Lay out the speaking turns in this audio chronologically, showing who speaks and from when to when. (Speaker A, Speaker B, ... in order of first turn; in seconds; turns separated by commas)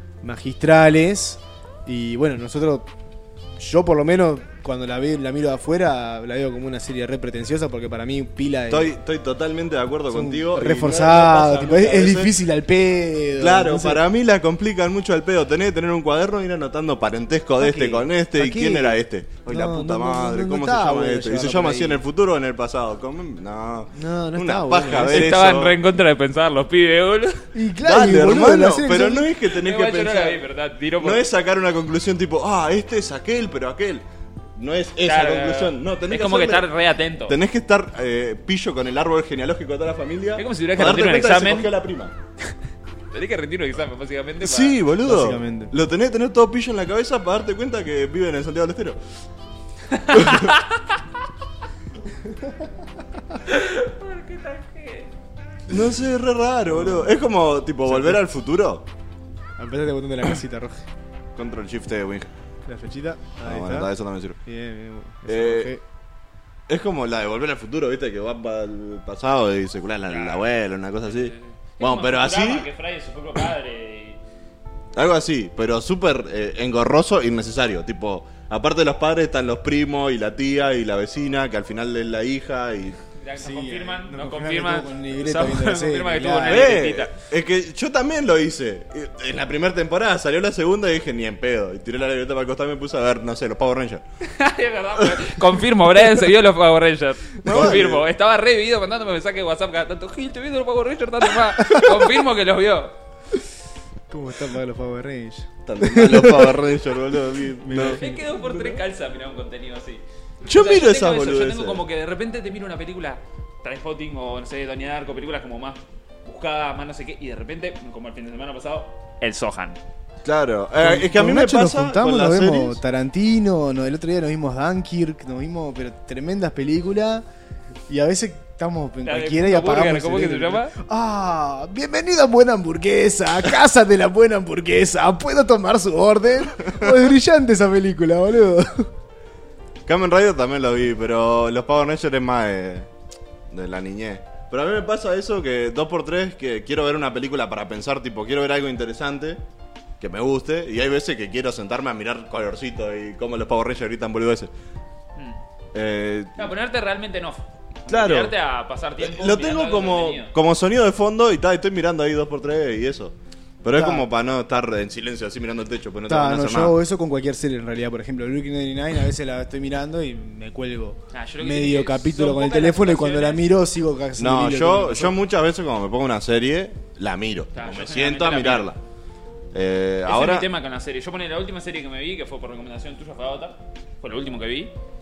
Speaker A: 0.2-2.9, Speaker A: 3.6-8.9, Speaker B: 8.7-12.3, Speaker A: 10.1-14.0, Speaker B: 13.4-25.8, Speaker A: 17.6-22.0, Speaker A: 23.9-25.4, Speaker C: 24.9-27.5, Speaker A: 27.5-29.3, Speaker B: 27.8-30.4, Speaker C: 29.5-31.2, Speaker B: 31.0-34.0, Speaker B: 34.5-36.7, Speaker C: 35.0-37.4, Speaker B: 37.3-42.1, Speaker C: 40.4-41.7, Speaker C: 43.1-44.8, Speaker B: 44.4-49.0, Speaker A: 45.0-45.7, Speaker C: 49.9-50.8, Speaker B: 50.1-50.5, Speaker C: 53.4-55.1, Speaker B: 55.7-58.8, Speaker A: 56.7-57.2, Speaker A: 57.8-58.2, Speaker A: 59.6-60.9, Speaker B: 61.4-62.3, Speaker A: 62.6-63.9, Speaker B: 63.4-64.4, Speaker A: 64.5-65.8, Speaker B: 65.3-65.7, Speaker B: 66.7-72.7, Speaker C: 70.1-70.4, Speaker C: 71.0-74.2, Speaker B: 74.9-83.0, Speaker C: 83.1-87.1, Speaker A: 83.4-86.8, Speaker B: 86.5-94.0, Speaker C: 94.2-102.9, Speaker B: 97.4-98.0, Speaker A: 97.5-97.8, Speaker A: 104.1-106.6, Speaker B: 105.7-108.7, Speaker A: 107.6-108.4, Speaker C: 107.8-119.8, Speaker B: 110.4-111.8, Speaker B: 120.2-122.8, Speaker A: 120.8-127.2, Speaker A: 127.9-138.9, Speaker C: 129.0-130.7, Speaker B: 136.6-137.0, Speaker B: 139.9-142.9, Speaker B: 143.5-149.4, Speaker B: 150.0-154.5, Speaker B: 155.7-156.4, Speaker C: 156.4-160.3, Speaker B: 157.9-158.3, Speaker B: 159.0-166.8, Speaker A: 163.7-164.1, Speaker A: 166.1-175.2, Speaker C: 171.1-173.6, Speaker B: 174.2-178.8, Speaker C: 177.5-178.7, Speaker B: 179.5-180.5, Speaker C: 180.1-184.7